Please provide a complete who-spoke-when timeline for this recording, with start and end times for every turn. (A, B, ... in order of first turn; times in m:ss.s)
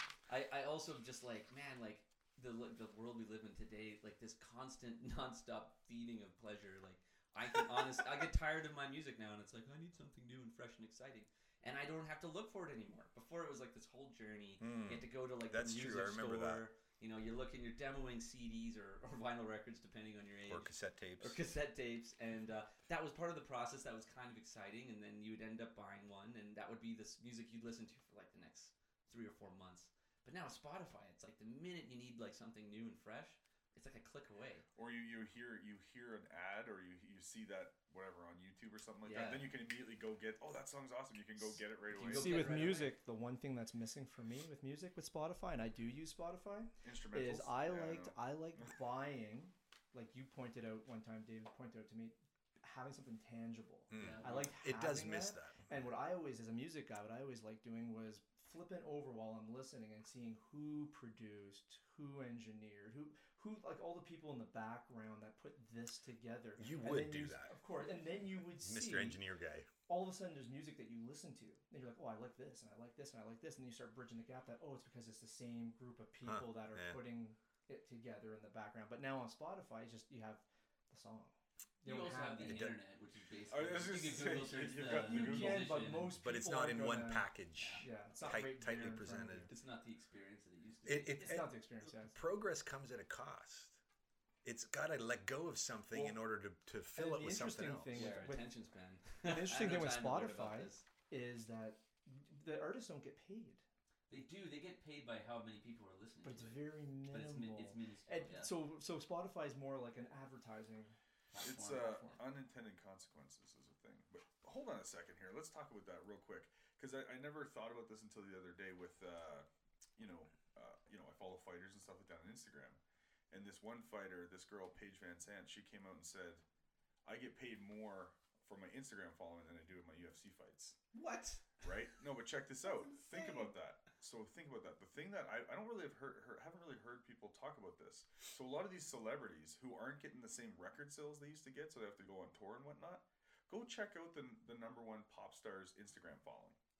0:00.3-0:34.6 A
0:14.6-0:16.6 B
0:20.5-0:21.4 B
0:34.8-0:42.8 C
0:39.0-0:39.5 A
0:41.9-0:42.9 A
0:42.0-1:09.2 D
0:46.8-0:48.7 C
0:53.9-0:55.6 B
0:53.9-0:54.5 A
1:06.6-1:07.5 B
1:08.6-1:09.7 B
1:09.9-1:22.7 D
1:16.2-1:17.0 B
1:21.8-1:26.2 A
1:22.4-1:22.8 B
1:23.5-1:26.0 C
1:24.8-1:27.3 D
1:26.2-1:29.5 B
1:27.6-1:27.8 A
1:27.8-1:29.5 D
1:29.5-1:31.4 A
1:30.8-1:33.8 B
1:31.2-1:32.2 D
1:34.4-1:38.2 B
1:35.9-1:36.2 C
1:36.9-1:38.5 D
1:37.9-1:40.8 A
1:39.2-1:43.6 D
1:44.1-1:48.5 A
1:46.2-1:51.5 D
1:51.3-1:52.2 A
1:51.4-1:59.4 C
2:00.0-2:02.8 C
2:03.3-2:06.4 C
2:07.0-2:10.8 C
2:10.9-2:11.6 A
2:11.6-2:26.6 C
2:13.1-2:13.4 A